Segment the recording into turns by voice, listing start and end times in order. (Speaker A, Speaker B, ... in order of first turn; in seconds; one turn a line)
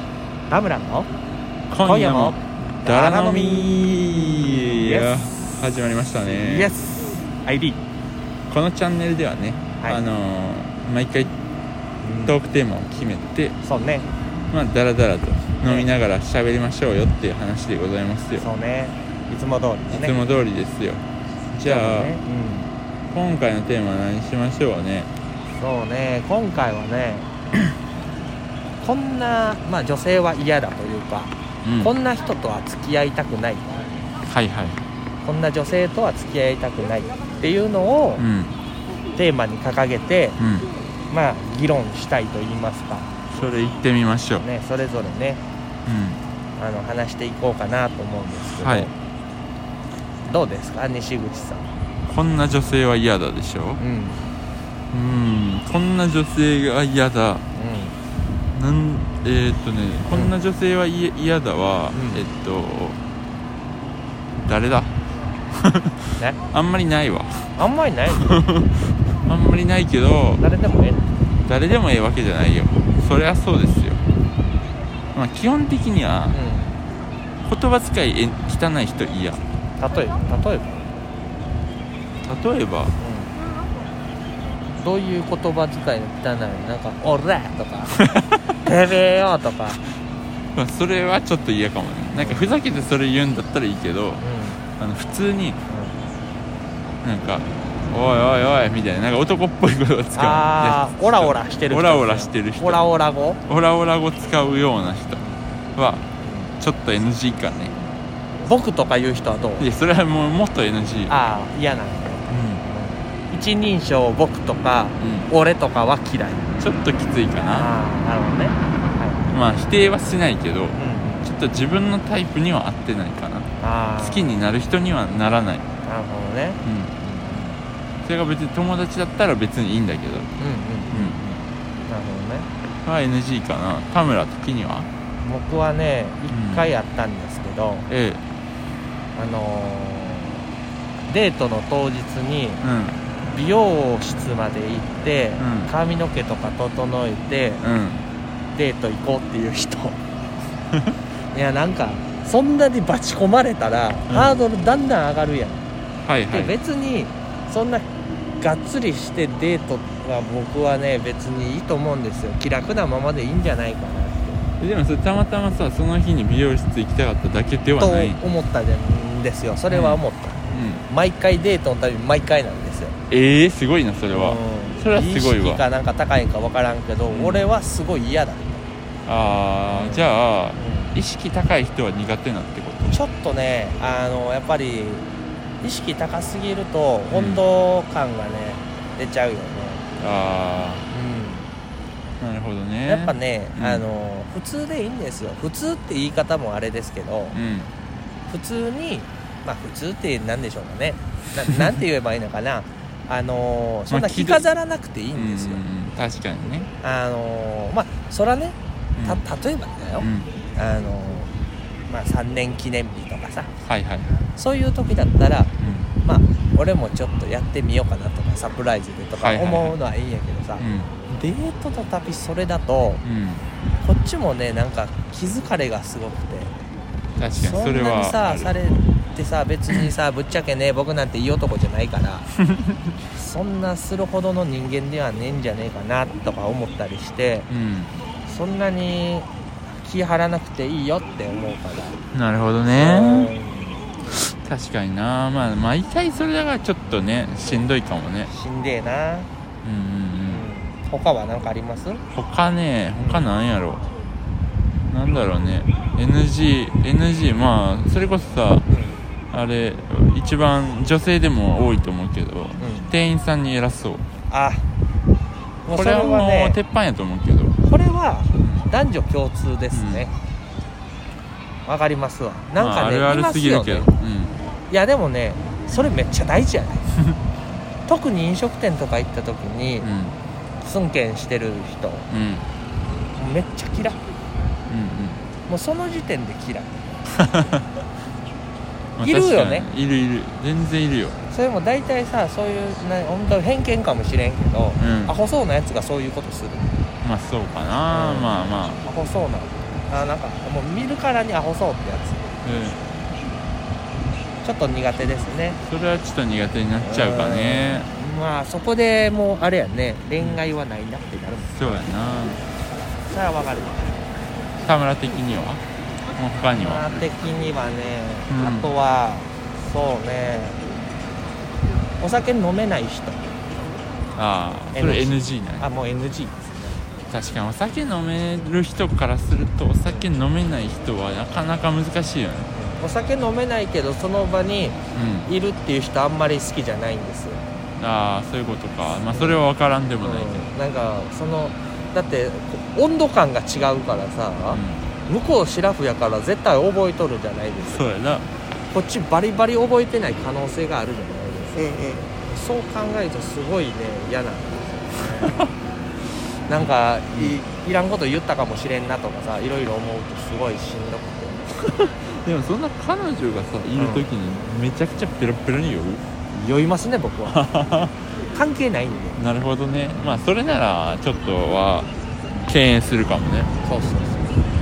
Speaker A: 0.5-1.1
Speaker B: 1.7-6.7
Speaker A: 1.8-4.0
Speaker A: 4.8-5.2
Speaker A: 6.4-7.8
Speaker B: 8.5-11.3
Speaker A: 12.0-12.4
Speaker B: 12.3-13.6
Speaker A: 13.6-14.1
Speaker B: 14.5-18.4
Speaker A: 15.6-15.9
Speaker A: 18.4-20.3
Speaker B: 19.9-22.1
Speaker A: 21.6-22.7
Speaker B: 23.1-25.1
Speaker A: 25.5-27.3
Speaker A: 28.8-33.7
Speaker B: 31.6-31.9
Speaker B: 34.2-34.8
Speaker A: 35.2-38.2
Speaker B: 38.2-38.5
Speaker A: 39.1-40.4
Speaker B: 40.4-40.7
Speaker A: 41.1-43.1
Speaker B: 43.3-44.4
Speaker A: 44.4-45.4
Speaker B: 45.9-46.2
Speaker A: 46.6-48.9
Speaker B: 48.5-48.9
Speaker A: 50.2-51.7
Speaker B: 52.1-53.8
Speaker A: 53.8-54.2
Speaker B: 54.9-57.4
Speaker A: 57.5-58.0
Speaker B: 58.5-63.0
Speaker A: 61.9-62.2
Speaker B: 64.4-64.9
Speaker B: 65.5-67.5
Speaker A: 67.6-68.4
Speaker B: 68.3-70.4
Speaker A: 70.4-71.1
Speaker B: 71.4-74.0
Speaker B: 75.1-76.4
Speaker A: 76.3-76.8
Speaker B: 77.4-79.4
Speaker A: 79.8-80.8
Speaker B: 82.2-82.9
Speaker A: 83.0-83.3
Speaker A: 84.8-89.8
Speaker B: 88.1-88.4
Speaker B: 90.5-94.2
Speaker A: 92.2-92.6
Speaker A: 94.2-94.6
Speaker B: 94.8-95.6
Speaker A: 95.7-95.9
Speaker B: 97.0-102.8
Speaker A: 100.2-103.4
Speaker B: 103.5-105.2
Speaker B: 105.8-106.0
Speaker A: 106.2-106.5
Speaker B: 106.6-107.8
Speaker A: 108.4-109.7
Speaker B: 109.6-111.2
Speaker A: 111.1-116.6
Speaker B: 112.3-112.6
Speaker B: 115.0-115.3
Speaker B: 116.6-117.7
Speaker A: 117.5-119.2
Speaker B: 119.3-125.6
Speaker A: 120.7-121.2
Speaker A: 123.6-124.4
Speaker A: 125.8-127.6
Speaker B: 126.6-126.9
Speaker B: 128.0-130.3
Speaker A: 130.4-132.5
Speaker B: 130.9-131.2
Speaker B: 132.8-134.9
Speaker A: 135.2-137.9
Speaker B: 136.3-136.7
Speaker B: 137.9-138.2
Speaker A: 139.1-140.4
Speaker A: 141.1-142.6
Speaker B: 142.6-143.0
Speaker A: 143.2-147.6
Speaker B: 145.4-145.7
Speaker B: 147.6-148.0
Speaker A: 148.5-150.0
Speaker A: 151.3-155.6
Speaker B: 156.0-156.5
Speaker A: 156.3-157.9
Speaker A: 158.4-164.4
Speaker B: 164.6-168.2
Speaker A: 167.8-172.9
Speaker B: 169.7-170.8
Speaker B: 173.1-175.6
Speaker A: 174.1-178.6
Speaker B: 177.1-177.5
Speaker B: 179.1-183.0
Speaker A: 179.7-180.9
Speaker A: 182.8-185.1
Speaker A: 185.6-189.8
Speaker B: 187.1-187.4
Speaker B: 190.0-190.8
Speaker A: 190.9-191.5
Speaker B: 192.2-193.8
Speaker A: 192.8-197.3
Speaker B: 197.3-197.7
Speaker A: 198.3-205.6
Speaker B: 203.9-204.4
Speaker B: 205.1-206.7
Speaker A: 206.8-211.3
Speaker B: 209.0-209.2
Speaker B: 210.0-210.3
Speaker A: 211.9-213.5
Speaker B: 213.6-214.1
Speaker A: 214.3-223.0
Speaker B: 215.6-215.9
Speaker B: 219.2-219.7
Speaker B: 220.6-220.9
Speaker B: 223.0-223.4
Speaker A: 223.8-226.6
Speaker B: 227.2-228.6
Speaker A: 227.4-232.3
Speaker A: 233.1-237.5
Speaker B: 237.5-237.9
Speaker A: 238.2-242.0
Speaker B: 242.1-243.3
Speaker A: 242.7-243.8
Speaker B: 244.1-248.3
Speaker A: 248.3-249.3
Speaker B: 249.6-250.5
Speaker A: 250.3-252.0
Speaker B: 252.1-253.8
Speaker A: 253.0-253.3
Speaker B: 254.9-258.6
Speaker A: 258.7-259.0
Speaker B: 259.3-264.1
Speaker A: 262.6-262.9
Speaker A: 264.3-264.6
Speaker A: 265.6-266.6
Speaker B: 265.7-267.6
Speaker A: 267.6-270.1
Speaker B: 268.4-268.6
Speaker B: 269.7-270.1
Speaker A: 271.6-273.9
Speaker B: 272.6-274.4
Speaker A: 274.7-276.9
Speaker A: 277.8-279.9
Speaker B: 279.8-280.1
Speaker A: 280.6-282.1
Speaker B: 282.1-282.5
Speaker A: 283.1-284.0
Speaker B: 284.7-285.2
Speaker A: 285.5-287.0
Speaker B: 287.2-287.6
Speaker B: 289.0-291.2
Speaker A: 289.0-289.7
Speaker A: 291.3-296.8
Speaker B: 294.8-295.1
Speaker B: 297.0-298.9
Speaker A: 297.9-302.2
Speaker B: 302.4-302.8
Speaker A: 304.4-305.6
Speaker B: 305.6-307.9
Speaker A: 306.8-311.9
Speaker B: 311.5-312.4
Speaker A: 313.0-314.0
Speaker B: 314.6-315.6
Speaker B: 316.1-316.9
Speaker A: 316.5-320.6
Speaker B: 318.3-318.7
Speaker A: 322.0-323.3
Speaker B: 324.1-325.6
Speaker A: 324.7-326.8
Speaker B: 327.1-332.5
Speaker A: 332.5-337.4
Speaker B: 334.9-335.3
Speaker B: 337.8-340.5
Speaker A: 339.1-339.4
Speaker A: 340.0-347.8
Speaker B: 344.5-344.8
Speaker B: 347.7-348.3
Speaker A: 348.7-355.4
Speaker B: 355.1-355.5
Speaker A: 356.5-361.5
Speaker B: 356.5-357.4
Speaker B: 361.6-366.0
Speaker A: 363.8-364.1
Speaker A: 366.3-367.4
Speaker B: 367.3-367.9
Speaker A: 368.3-369.2
Speaker B: 369.1-373.5
Speaker A: 370.0-370.2
Speaker A: 373.6-374.5